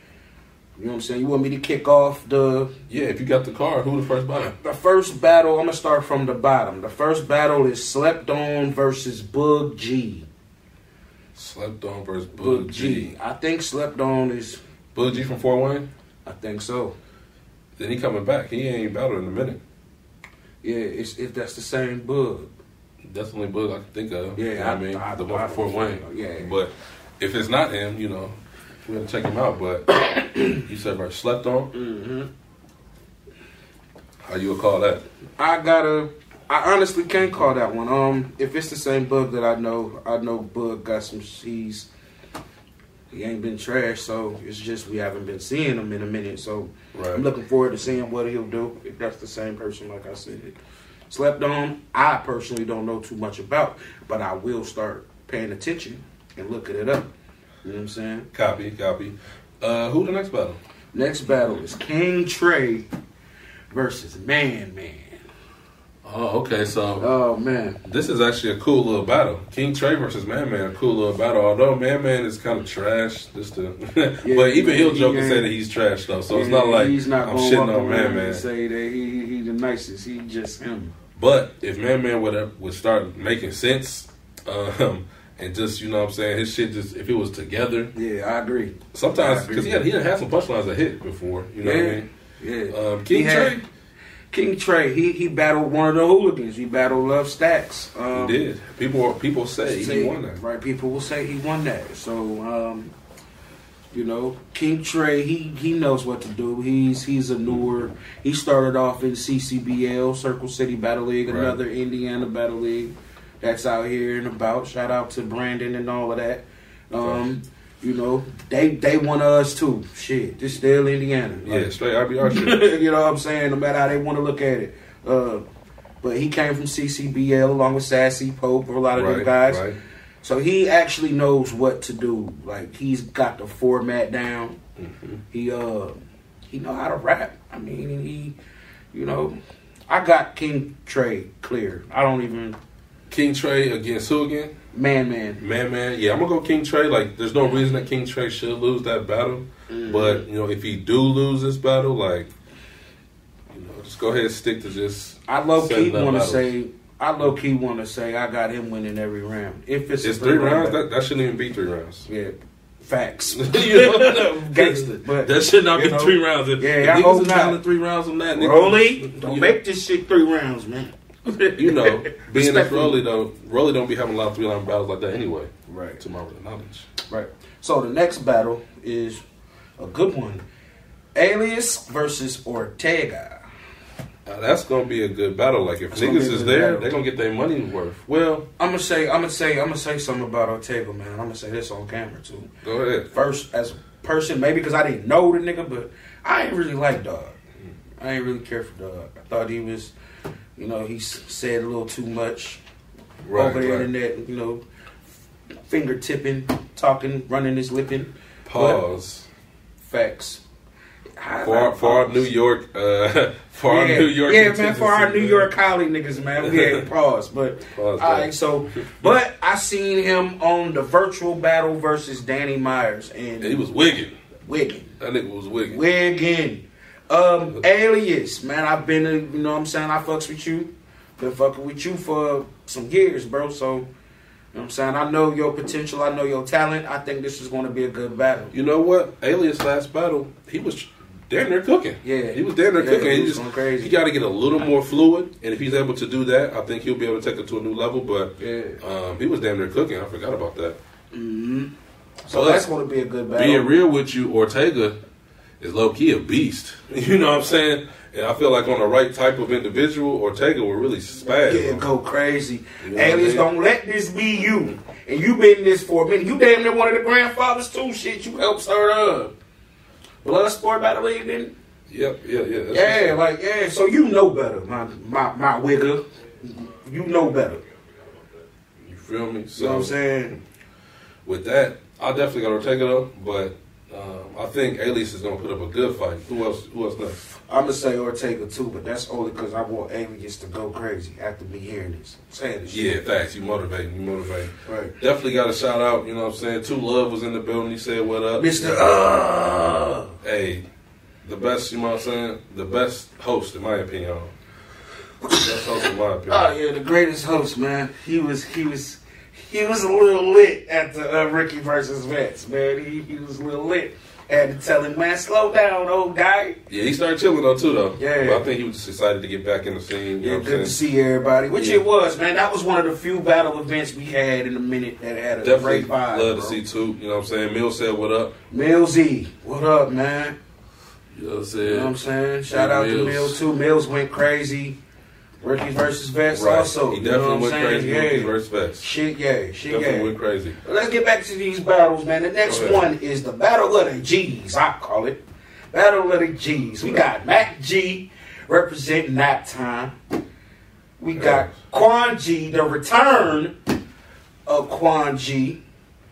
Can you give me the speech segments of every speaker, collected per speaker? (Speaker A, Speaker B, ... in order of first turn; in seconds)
Speaker A: 0.8-2.7, 4.6-10.3, 12.3-14.6, 16.2-16.9, 20.6-22.5, 24.4-26.5, 31.7-32.3, 35.4-41.9, 43.1-50.5, 51.1-57.1, 57.6-58.3, 60.9-62.9, 63.7-65.2, 67.0-67.8, 74.2-75.5, 76.3-80.9, 87.9-89.9, 91.6-93.6, 94.3-98.5, 99.6-102.9, 103.9-121.7, 122.2-125.4, 126.0-129.6, 130.2-134.6, 135.3-135.9, 136.5-138.3, 138.9-139.3, 139.9-142.6, 144.7-145.4, 149.7-150.2, 155.3-160.8, 162.1-167.6, 168.3-173.0, 175.7-176.0, 177.1-179.2, 179.8-180.4, 181.1-183.4, 185.9-187.0, 188.6-192.5, 193.1-197.4, 198.0-199.9, 200.6-202.6, 203.3-204.6, 205.7-208.8, 209.8-210.4, 211.2-212.3, 213.6-223.6, 224.4-224.9, 225.7-233.9, 234.5-238.5, 242.0-244.0, 248.4-248.8, 251.1-251.7, 252.3-253.7, 261.3-269.3, 270.2-271.5, 272.7-277.6, 279.6-280.4, 287.5-293.0, 294.6-294.9, 298.3-300.1, 305.3-305.7, 306.3-316.6, 318.0-318.5, 320.2-326.6, 328.5-330.3, 331.6-334.8, 335.4-345.2, 345.7-349.9, 351.0-353.5, 354.5-355.6
Speaker B: 2.9-4.5, 11.3-13.2, 14.9-15.9, 17.8-19.6, 23.1-31.7, 34.2-35.0, 46.9-47.2, 58.3-60.6, 66.0-67.0, 67.8-78.4, 81.1-87.9, 88.9-92.0, 92.7-93.6, 98.1-100.4, 111.2-111.6, 117.0-117.2, 121.4-122.6, 128.9-129.8, 134.8-135.2, 143.1-144.5, 145.4-152.3, 153.5-156.5, 160.0-162.1, 163.3-169.5, 171.5-176.9, 184.2-188.5, 192.6-193.1, 203.2-203.9, 208.4-209.3, 211.4-215.5, 216.4-216.9, 217.7-218.9, 223.4-224.2, 225.0-225.8, 238.5-250.8, 252.3-252.7, 253.3-255.0, 255.6-261.9, 262.8-263.5, 271.9-273.2, 278.8-279.9, 281.2-287.2, 292.6-298.9, 300.2-300.6, 301.2-304.3, 305.3-306.5, 316.7-320.8, 321.5-321.8, 325.4-328.4, 331.1-331.9, 332.5-333.4, 336.3-338.9, 339.7-340.6, 342.4-342.8, 351.1-351.5